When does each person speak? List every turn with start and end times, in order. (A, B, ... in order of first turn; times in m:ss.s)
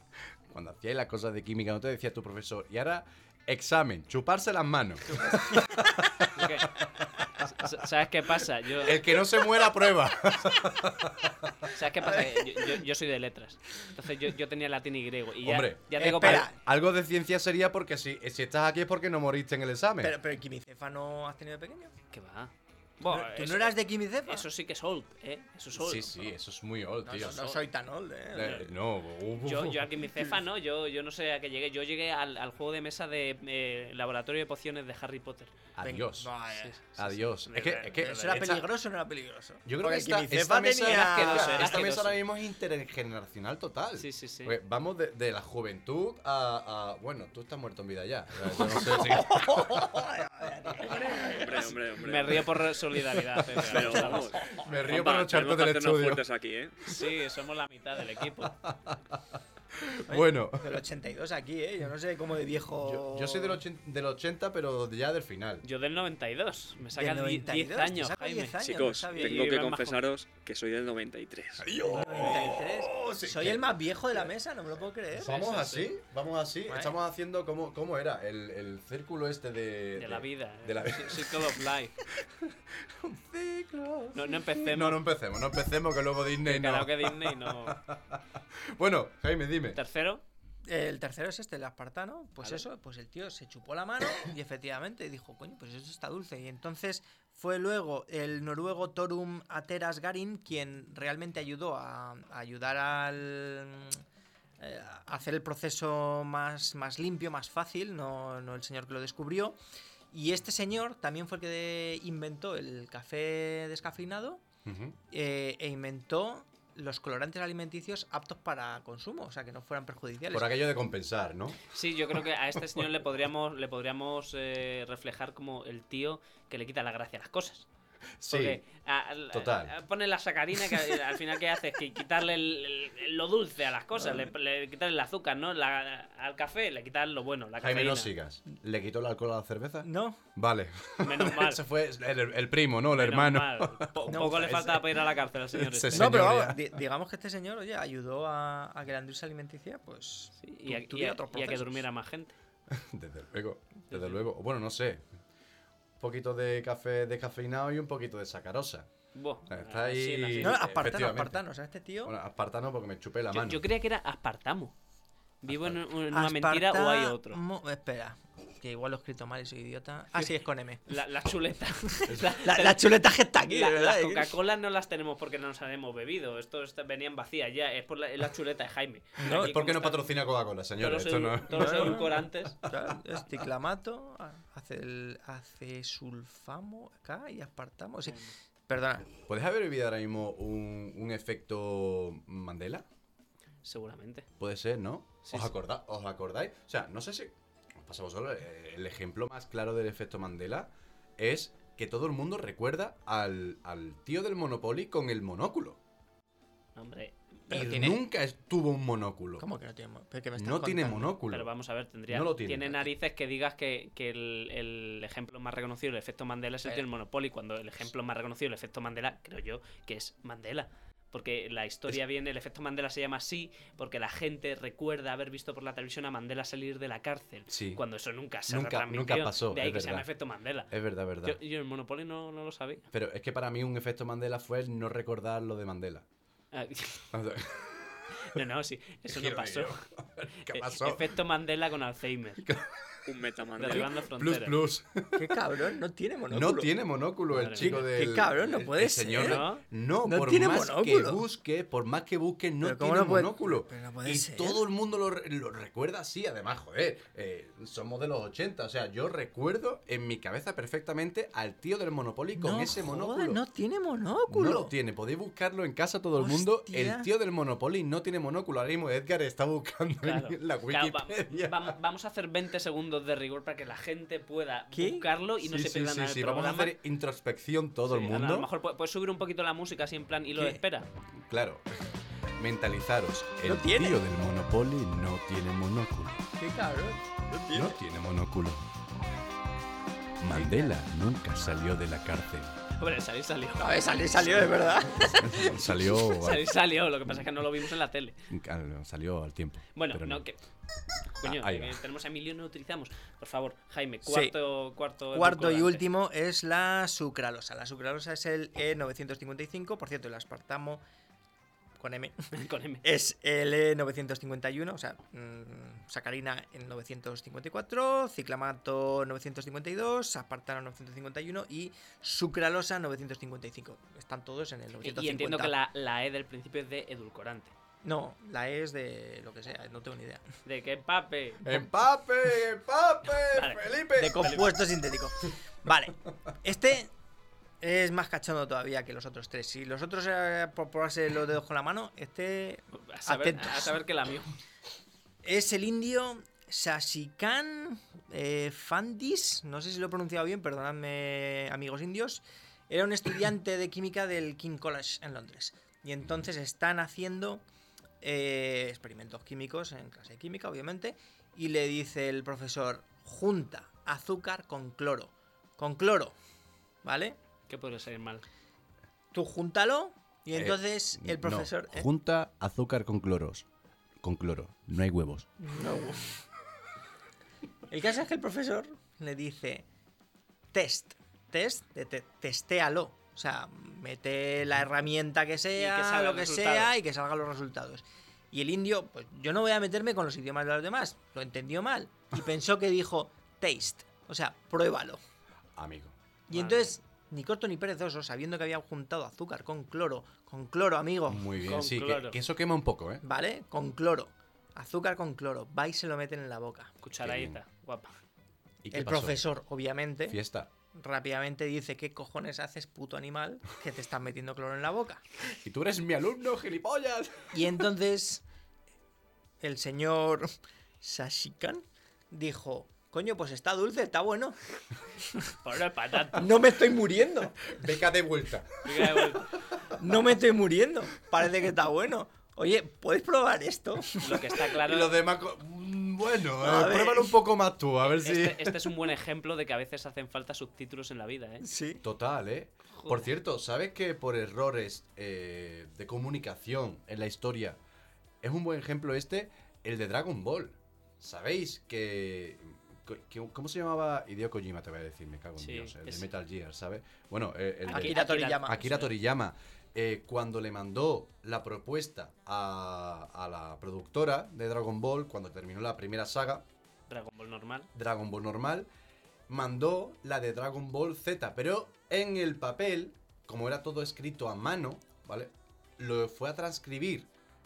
0:00.5-0:07.7 A
0:05.2-0:05.7 B
0:06.3-0:06.8 C
0:07.4-0:09.1 C
0:08.8-0:11.7 A
0:11.7-0:16.5 C
0:12.1-0:12.8 B
0:15.4-0:20.2 A
0:16.0-0:16.6 B
0:20.0-0:21.9 B
0:22.1-0:26.3 C
0:23.0-0:24.5 B
0:25.7-0:27.6 A
0:27.0-0:28.7 B
0:28.3-0:30.0 A
0:29.4-0:35.5 C
0:35.7-0:36.3 A
0:35.8-0:37.0 B
0:36.6-0:38.5 C
0:37.0-0:38.7 A
0:37.9-0:41.8 B
0:39.6-0:50.1 A
0:40.8-0:42.2 C
0:44.0-0:44.6 C
0:48.6-0:51.8 B
0:50.9-0:52.5 D
0:52.0-0:54.4 C
0:53.6-0:56.9 D
0:54.5-0:56.2 A
0:56.8-0:58.5 C
0:58.4-1:00.8 A
1:00.1-1:03.6 B
1:02.8-1:05.6 A
1:05.6-1:10.0 C
1:07.0-1:09.5 B
1:08.6-1:11.7 D
1:11.6-1:14.3 A
1:11.8-1:15.7 B
1:15.1-1:21.6 A
1:15.3-1:15.9 C
1:16.7-1:16.9 B
1:20.0-1:22.0 C
1:22.1-1:29.8 A
1:24.1-1:25.0 C
1:26.4-1:27.8 C
1:29.7-1:30.2 C
1:30.6-1:44.0 B
1:44.6-1:49.6 B
1:50.1-1:54.4 B
1:54.6-1:55.0 A
1:55.1-2:00.5 B
2:00.3-2:01.6 A
2:01.7-2:07.7 C
2:08.2-2:08.6 A
2:08.3-2:18.1 C
2:09.3-2:09.7 A
2:17.6-2:24.8 A
2:19.8-2:20.2 B
2:21.0-2:21.6 C
2:22.9-2:26.3 C
2:24.1-2:24.8 B
2:25.5-2:26.6 A
2:25.9-2:31.8 B
2:30.4-2:32.4 C
2:32.7-2:35.0 A
2:33.9-2:34.2 C
2:36.0-2:38.9 A
2:39.1-2:40.7 C
2:39.5-2:41.4 A
2:40.4-2:42.1 B
2:42.0-2:43.6 A
2:43.3-2:44.7 C
2:45.4-2:47.4 C
2:45.5-2:45.8 A
2:46.1-2:50.8 B
2:50.8-3:00.0 C
2:52.0-2:54.3 B
2:52.1-2:52.3 A
2:59.2-2:59.5 B
2:59.3-3:03.0 A
3:00.8-3:02.6 C
3:01.5-3:09.1 B
3:09.2-3:12.8 A
3:13.6-3:14.3 C
3:14.4-3:25.8 A
3:15.2-3:15.5 C
3:26.8-3:27.2 C
3:27.5-3:28.0 B
3:27.5-3:29.4 A
3:29.4-3:31.2 B
3:30.4-3:31.5 A
3:31.3-3:50.7 C
3:32.1-3:32.9 A
3:47.5-3:47.8 A
3:48.5-3:50.0 A
3:50.7-3:51.4 A
3:51.2-3:52.8 C
3:52.9-3:56.0 A
3:56.5-3:57.1 C
3:57.1-3:58.4 A
3:58.2-3:59.8 C
3:59.1-4:01.1 A
4:00.5-4:02.4 C
4:02.4-4:02.8 A
4:03.0-4:03.9 D
4:03.6-4:04.6 C
4:04.0-4:05.4 A
4:05.1-4:06.7 B
4:06.3-4:23.4 A
4:07.3-4:07.8 C
4:07.6-4:09.5 B
4:09.2-4:09.6 C
4:10.0-4:11.2 B
4:12.6-4:14.6 B
4:22.4-4:24.7 B
4:24.3-4:31.8 A
4:26.2-4:27.1 B
4:30.0-4:36.7 C
4:34.7-4:35.0 B
4:35.4-4:38.5 A
4:37.9-4:40.9 C
4:40.4-4:40.6 B
4:41.2-4:46.2 A
4:43.4-4:44.0 B
4:46.4-4:47.8 B
4:47.5-4:48.6 A
4:50.2-4:52.6 A
4:50.3-4:50.7 B
4:52.8-4:54.7 C
4:53.6-4:55.6 B
4:55.2-4:56.5 A
4:56.0-4:58.2 C
4:58.3-5:00.2 A
4:59.7-5:00.4 C
5:01.2-5:05.8 C
5:01.2-5:01.8 A
5:04.0-5:04.3 B
5:05.1-5:10.8 B
5:11.8-5:12.3 B
5:12.3-5:12.8 C
5:12.8-5:25.5 B
5:24.8-5:27.5 C
5:27.8-5:30.2 B
5:30.4-5:31.5 C
5:31.4-5:34.3 A
5:33.3-5:34.5 C
5:33.9-5:36.9 B
5:37.6-5:43.8 B
5:42.9-5:44.3 C
5:45.2-5:57.4 B
5:58.0-6:06.1 B
6:06.8-6:07.2 B
6:07.5-6:08.2 C
6:09.1-6:11.9 B
6:10.3-6:13.4 A
6:14.0-6:15.3 A
6:15.4-6:16.1 B
6:17.7-6:19.6 B
6:20.5-6:35.0 B
6:25.6-6:26.7 C
6:35.6-6:35.9 A
6:36.3-6:41.3 B
6:36.3-6:36.7 C
6:41.1-6:43.0 A
6:41.4-6:42.2 C
6:43.0-6:46.7 B
6:46.8-6:48.0 C
6:47.0-6:47.4 A
6:48.6-6:49.2 A
6:48.7-6:50.2 B
6:50.1-6:50.5 A
6:50.7-6:55.0 B
6:55.3-6:57.4 A
6:57.3-6:58.2 B
6:59.4-7:00.3 B
7:00.8-7:04.4 B
7:05.4-7:06.3 C
7:06.1-7:07.5 B
7:07.5-7:09.0 A
7:08.6-7:09.3 C
7:09.8-7:14.4 B
7:14.0-7:14.9 C
7:14.6-7:18.7 A
7:16.4-7:17.2 B
7:17.8-7:21.4 C
7:21.4-7:21.8 B
7:21.8-7:27.6 A
7:22.8-7:23.1 C
7:28.2-7:46.4 A
7:35.4-7:36.1 C
7:37.7-7:38.9 C
7:37.7-7:38.6 B
7:46.9-7:47.7 C
7:47.7-7:48.7 A
7:49.3-7:57.1 A